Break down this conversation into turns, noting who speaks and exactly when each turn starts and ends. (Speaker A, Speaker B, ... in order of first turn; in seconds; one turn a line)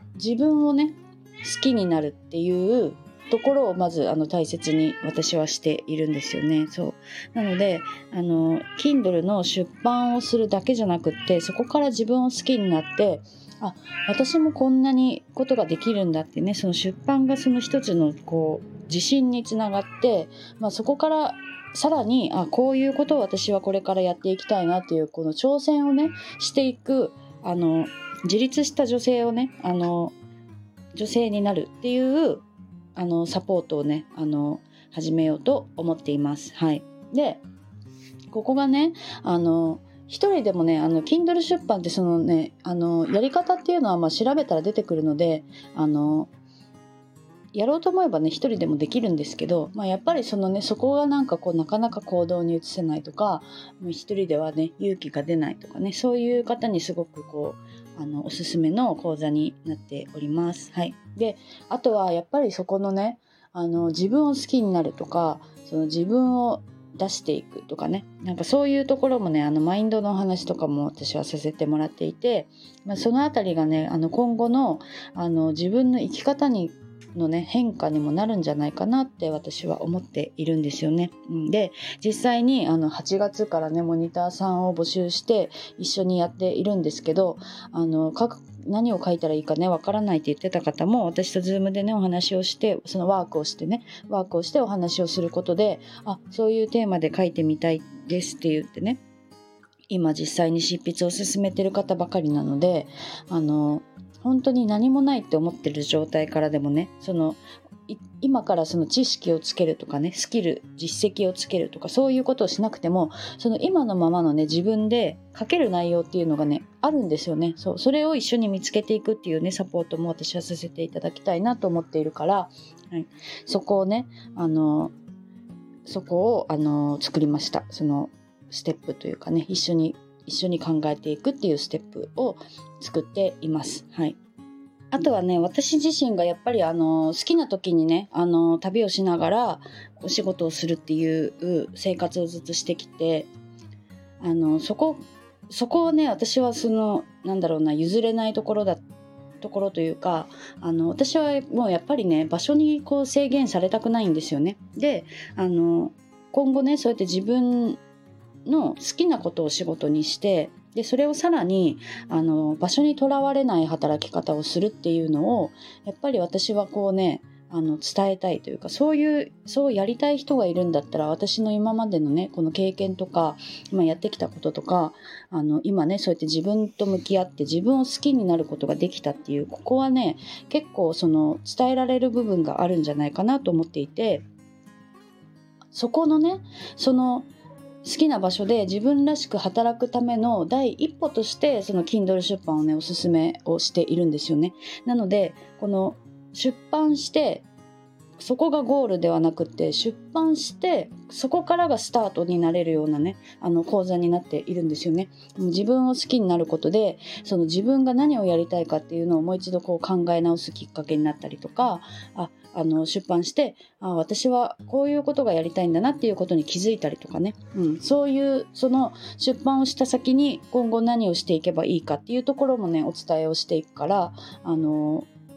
Speaker A: 0.1-30.2
Speaker A: 30.9-32.4
Speaker A: 33.0-37.4
Speaker A: 38.3-46.3
Speaker A: 47.5-99.0
Speaker A: 99.9-124.9
Speaker A: 125.9-134.2
Speaker A: 134.9-143.3
Speaker A: 144.2-148.8
Speaker A: 149.4-157.8
Speaker A: 158.4-184.3
Speaker A: 185.7-187.3
Speaker A: 187.8-197.5
Speaker A: 198.2-225.1